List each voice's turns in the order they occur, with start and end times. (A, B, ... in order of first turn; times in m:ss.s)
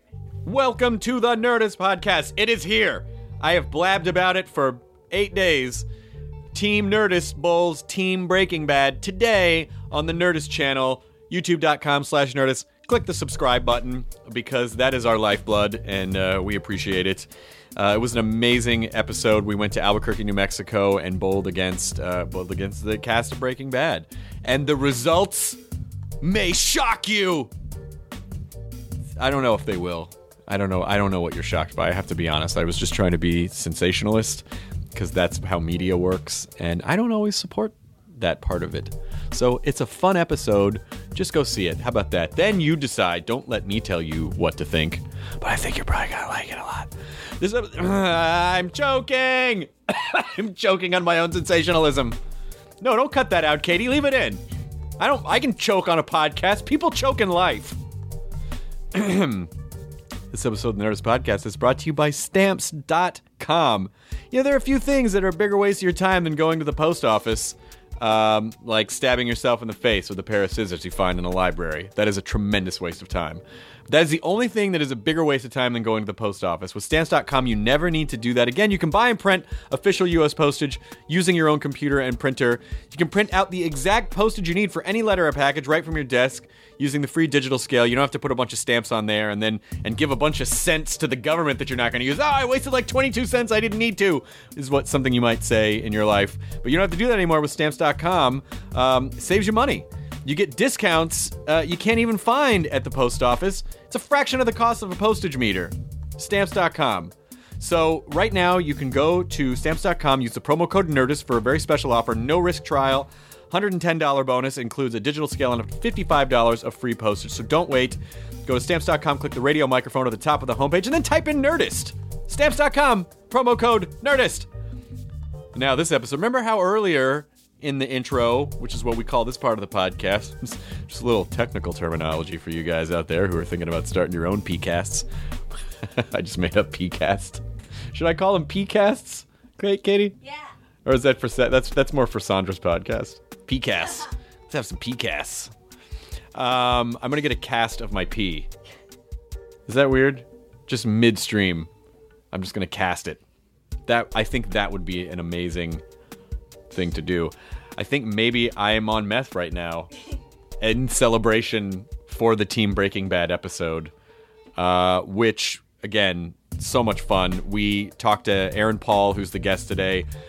0:00.4-0:05.8 A
0:06.5-0:25.6 A
0:26.2-0:27.5 A
0:29.2-0:34.4 A
0:34.9-0:52.2 A
0:52.8-0:54.4 A
0:55.0-0:57.8 A
0:58.9-0:59.5 A
1:00.3-2:04.5 A
2:05.5-2:15.0 A
2:15.9-2:17.4 A
2:17.9-2:20.2 A
2:20.8-2:25.5 A
2:26.3-2:28.5 A
2:29.7-2:31.7 A
2:32.3-2:33.2 A
2:33.9-2:35.8 A
2:36.7-2:39.9 A
2:40.6-2:43.9 A
2:44.6-2:50.1 A